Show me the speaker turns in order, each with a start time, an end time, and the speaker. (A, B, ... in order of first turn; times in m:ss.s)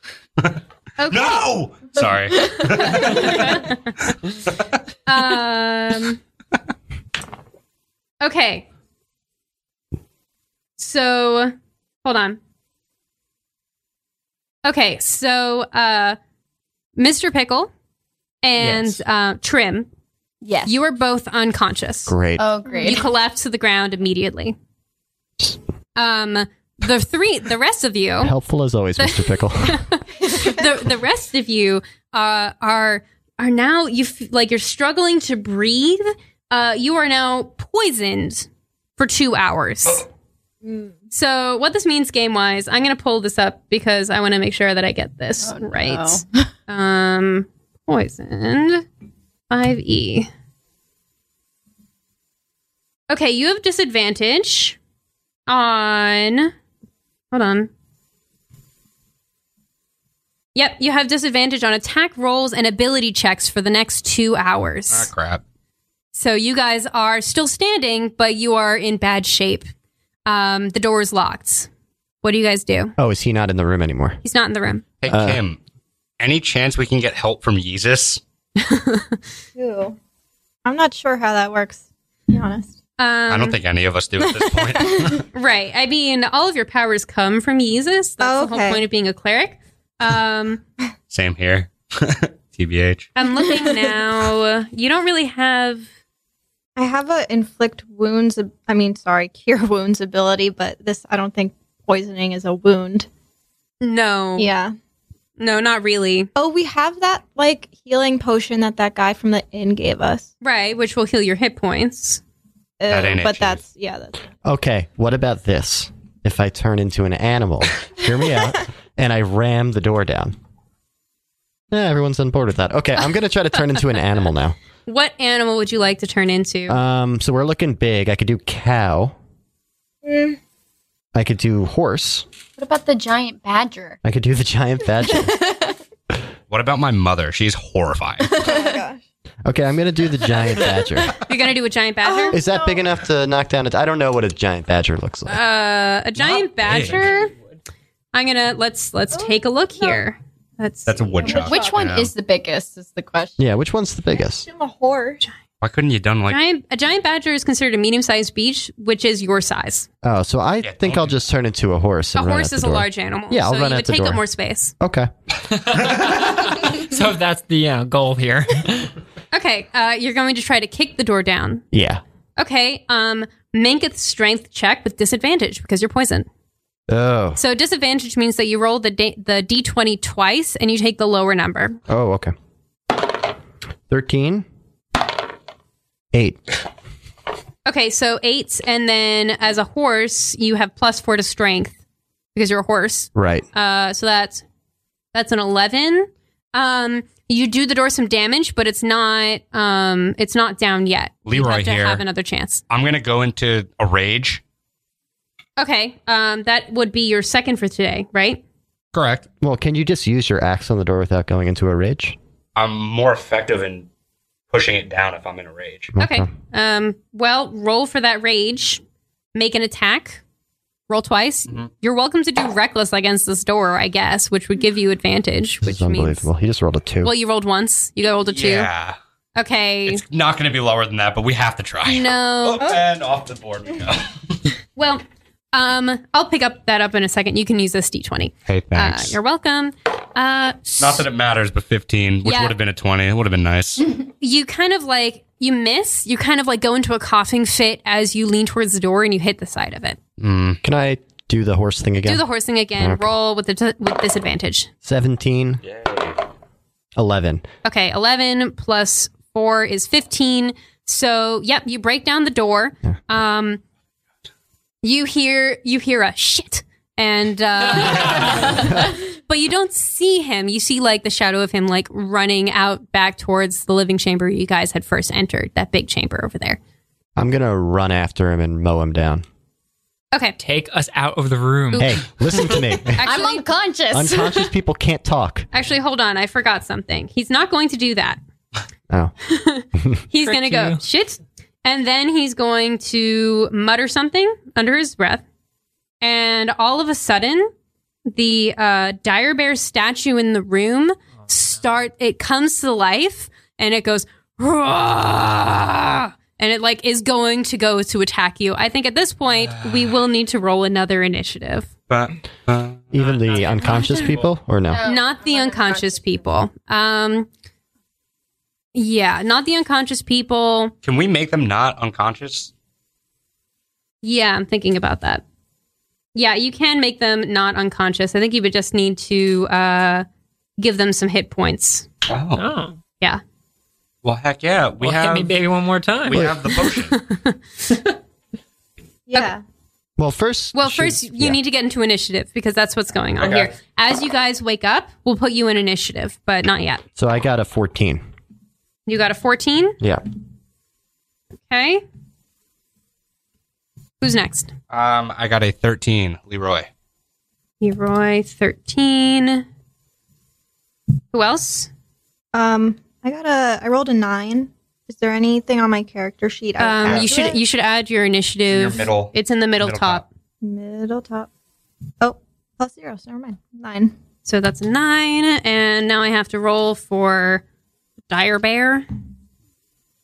0:00.4-0:03.7 A
0:01.0-0:01.4 B
0:03.0-0:03.8 B
0:05.0-0:06.2 B
0:08.2-0:08.6 B
0:10.8-0:12.4 B
0:14.6-0:16.2 B
0:17.0-0:17.7 B
0:18.4-0:19.9 B
0:18.6-0:19.0 C
0:20.4-0:20.8 D
0:20.6-0:22.2 B
0:22.1-0:22.4 E
0:22.4-0:23.0 D
0:22.7-0:23.0 F
0:22.8-0:24.6 B
0:26.0-0:28.3 B
0:28.2-0:29.8 E
0:29.0-0:40.0 B
0:40.6-0:41.0 F
0:41.1-0:48.8 B
0:45.4-0:46.5 D
0:49.5-0:50.3 B
0:53.1-0:54.8 B
0:55.5-0:56.5 B
0:57.3-0:57.7 B
1:00.5-1:05.1 B
1:04.9-1:05.4 A
1:06.1-1:09.7 B
1:10.2-1:11.7 B
1:12.2-1:12.9 B
1:13.0-1:14.2 E
1:14.2-1:14.8 B
1:15.0-1:15.6 A
1:15.1-1:15.4 E
1:16.2-1:18.2 A
1:18.6-1:19.2 B
1:19.6-1:20.0 F
1:20.6-1:22.7 F
1:23.0-1:23.6 B
1:23.3-1:25.2 A
1:24.2-1:25.2 F
1:25.3-1:30.6 B
1:28.2-1:28.8 F
1:31.1-1:33.1 A
1:33.2-1:35.9 B
1:36.8-1:43.1 F
1:43.8-1:44.5 B
1:44.4-1:44.7 F
1:45.4-1:46.3 B
1:46.4-1:50.3 F
1:50.4-1:52.2 B
1:52.8-1:54.2 F
1:52.9-1:53.6 A
1:54.4-2:00.3 E
2:01.7-2:04.5 E
2:03.0-2:03.8 B
2:04.8-2:06.8 B
2:06.7-2:09.1 E
2:10.0-2:10.4 F
2:11.1-2:12.2 E
2:12.6-2:14.0 D
2:14.0-2:15.4 E
2:15.1-2:15.4 F
2:16.5-2:18.4 A
2:18.2-2:19.0 F
2:18.4-2:18.7 D
2:19.4-2:21.1 E
2:21.2-2:22.4 B
2:22.0-2:22.8 F
2:22.3-2:25.4 E
2:25.3-2:27.3 B
2:26.2-2:27.0 A
2:28.1-2:31.4 B
2:29.1-2:30.0 F
2:30.8-2:32.1 A
2:31.2-2:31.8 F
2:31.2-2:33.4 D
2:33.4-2:34.5 E
2:34.1-2:35.2 F
2:35.6-2:36.4 A
2:36.3-2:39.9 B
2:40.0-2:44.2 E
2:40.6-2:41.0 A
2:42.1-2:44.7 B
2:44.8-2:45.1 E
2:45.6-2:48.9 C
2:49.3-2:51.6 B
2:51.7-2:52.0 E
2:52.4-2:56.3 B
2:56.9-2:57.4 E
2:57.4-3:01.8 B
3:01.9-3:02.3 E
3:03.9-3:04.4 E
3:06.1-3:06.4 E
3:07.6-3:11.7 B
3:12.3-3:14.4 B
3:13.1-3:13.4 E
3:15.1-3:22.6 B
3:21.2-3:22.0 A
3:22.7-3:24.4 A
3:25.6-3:28.4 B
3:28.9-3:29.3 A
3:29.4-3:32.2 E
3:32.6-3:33.9 A
3:34.5-3:35.9 A
3:35.9-3:36.3 E
3:36.0-3:38.8 B
3:39.3-3:40.2 B
3:40.9-3:46.2 B
3:45.6-3:47.1 E
3:47.0-3:48.7 B
3:48.3-3:49.0 A
3:49.4-3:50.0 B
3:49.9-3:54.4 A
3:51.8-3:52.6 B
3:54.8-4:01.0 B
3:58.4-3:59.2 A
4:00.8-4:03.9 A
4:02.2-4:02.6 B
4:04.2-4:10.0 B
4:10.2-4:10.6 A
4:10.6-4:12.2 E
4:12.0-4:14.7 B
4:12.8-4:13.1 E
4:14.8-4:15.6 E
4:15.6-4:16.1 A
4:17.0-4:17.4 E
4:17.6-4:23.6 B
4:24.8-4:36.6 B
4:37.2-4:39.2 E
4:40.4-4:42.0 C
4:41.7-4:43.4 B
4:41.8-4:43.0 E
4:43.0-4:44.5 D
4:43.9-4:45.5 E
4:45.5-4:48.2 B
4:49.2-4:55.2 B
4:50.2-4:50.8 C
4:56.0-4:57.5 B
4:58.1-5:11.7 B
5:11.9-5:13.6 A
5:12.9-5:14.8 E
5:13.2-5:14.0 C
5:14.7-5:16.2 D
5:14.8-5:17.3 B
5:18.7-5:20.7 B
5:20.8-5:22.5 A
5:24.0-5:25.2 B
5:26.1-5:30.0 B
5:30.6-5:31.9 B
5:32.0-5:32.4 A
5:32.4-5:32.8 C
5:34.0-5:35.4 A
5:34.8-5:36.3 C
5:36.0-5:37.0 A
5:36.1-5:36.4 E
5:36.8-5:37.8 B
5:39.1-5:39.4 F
5:40.0-5:41.4 E
5:40.5-5:46.8 B
5:43.2-5:43.6 A
5:47.0-5:48.0 E
5:48.9-5:49.8 B
5:51.5-5:51.8 B
5:54.0-5:54.5 B
5:54.7-5:56.7 A
5:57.6-5:59.4 B
6:01.1-6:01.7 B
6:02.3-6:07.4 F
6:06.6-6:10.0 B
6:08.5-6:10.0 A
6:10.4-6:11.3 F
6:12.0-6:13.9 F
6:14.2-6:17.4 B
6:18.1-6:18.8 B